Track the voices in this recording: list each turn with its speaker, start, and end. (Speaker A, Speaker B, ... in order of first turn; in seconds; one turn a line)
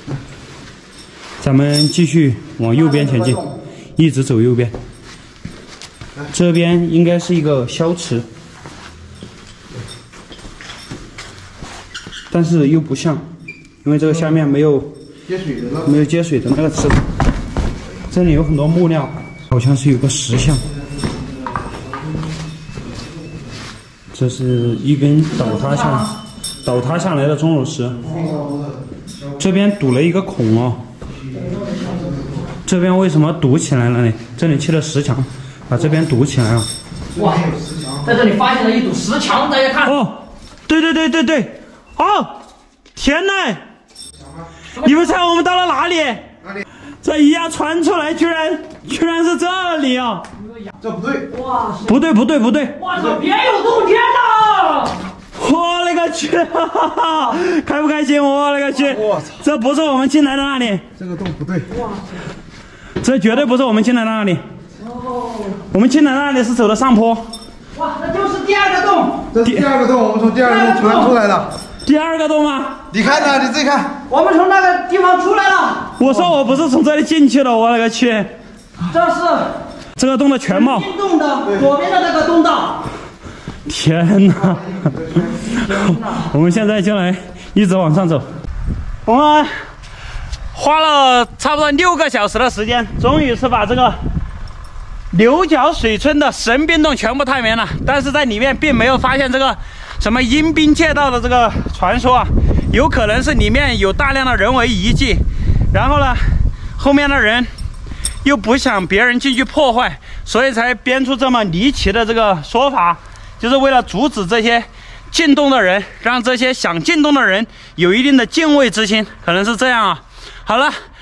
Speaker A: 1.4-3.4
Speaker B: 2.7-3.5
Speaker A: 4.0-4.7
Speaker A: 6.3-8.3
Speaker A: 12.3-13.2
Speaker A: 13.8-14.9
Speaker C: 15.3-15.9
Speaker A: 15.8-17.1
Speaker A: 18.1-20.6
Speaker C: 21.6-22.0
Speaker A: 24.1-28.1
Speaker B: 25.4-26.1
Speaker C: 28.0-28.8
Speaker B: 28.1-28.5
Speaker A: 29.4-30.9
Speaker C: 31.1-32.4
Speaker B: 31.3-32.4
Speaker A: 32.6-36.7
Speaker B: 37.1-37.5
Speaker C: 37.1-38.1
Speaker B: 38.0-39.9
Speaker A: 39.8-42.4
Speaker A: 42.9-43.6
Speaker C: 44.2-44.5
Speaker A: 44.8-46.3
Speaker A: 47.0-50.3
Speaker C: 50.8-51.3
Speaker B: 51.3-52.0
Speaker A: 51.8-52.9
Speaker B: 52.8-55.0
Speaker A: 55.3-60.9
Speaker C: 58.9-59.4
Speaker C: 61.0-61.8
Speaker A: 63.0-64.4
Speaker B: 64.8-65.6
Speaker A: 65.7-67.3
Speaker B: 67.7-69.3
Speaker C: 69.3-71.5
Speaker A: 69.4-69.7
Speaker B: 70.4-71.1
Speaker A: 71.8-72.9
Speaker C: 72.9-73.9
Speaker B: 73.0-73.3
Speaker B: 74.0-76.0
Speaker A: 76.0-78.3
Speaker B: 78.9-79.6
Speaker A: 80.0-80.9
Speaker B: 80.5-82.8
Speaker A: 83.7-84.8
Speaker C: 84.4-85.5
Speaker A: 85.4-88.3
Speaker B: 85.5-86.3
Speaker A: 89.0-89.5
Speaker A: 90.5-94.0
Speaker A: 95.1-107.5
Speaker A: 108.2-120.8